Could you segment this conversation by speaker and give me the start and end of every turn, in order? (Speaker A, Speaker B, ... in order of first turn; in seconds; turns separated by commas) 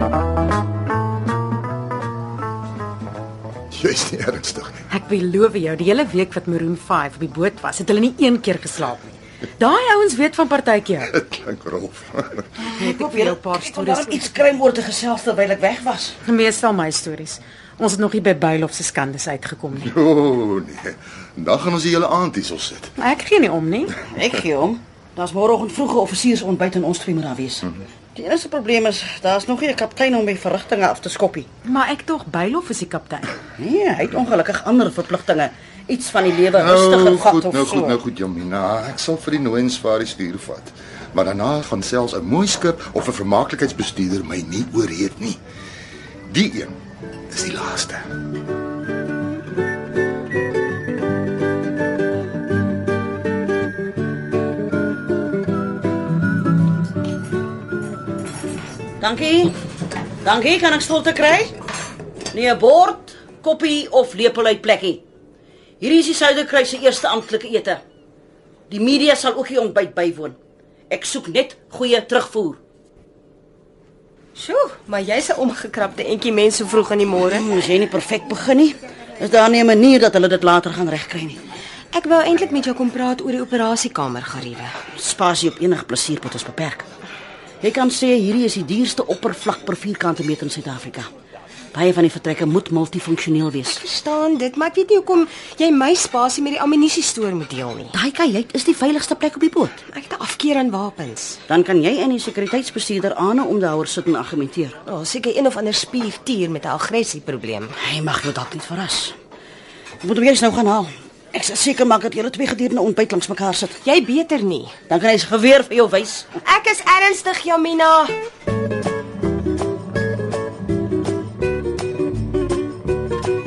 Speaker A: 3.7-4.9, Speaker B: 4.9-11.1, Speaker A: 11.1-12.5, Speaker C: 12.6-16.2, Speaker B: 12.7-14.3, Speaker B: 16.2-19.9, Speaker A: 19.8-22.9, Speaker B: 23.0-24.0, Speaker C: 24.1-31.5, Speaker B: 31.6-33.4, Speaker C: 33.6-38.0, Speaker A: 36.5-45.4, Speaker A: 46.3-46.8, Speaker A: 47.3-48.1, Speaker C: 59.0-59.6, Speaker C: 60.2-61.5, Speaker C: 62.3-65.0, Speaker C: 65.8-67.8, Speaker C: 68.7-70.4, Speaker C: 70.9-72.6, Speaker D: 74.4-77.5, Speaker C: 77.2-81.5, Speaker D: 81.9-84.8, Speaker C: 85.0-86.9, Speaker C: 87.6-91.1, Speaker C: 91.7-93.8, Speaker D: 93.7-98.0, Speaker C: 97.9-99.8, Speaker D: 99.9-101.4, Speaker C: 101.5-104.8, Speaker D: 104.9-107.8, Speaker C: 107.8-109.2, Speaker C: 110.0-113.8, Speaker D: 113.8-114.8, Speaker C: 114.9-116.4, Speaker D: 116.4-118.1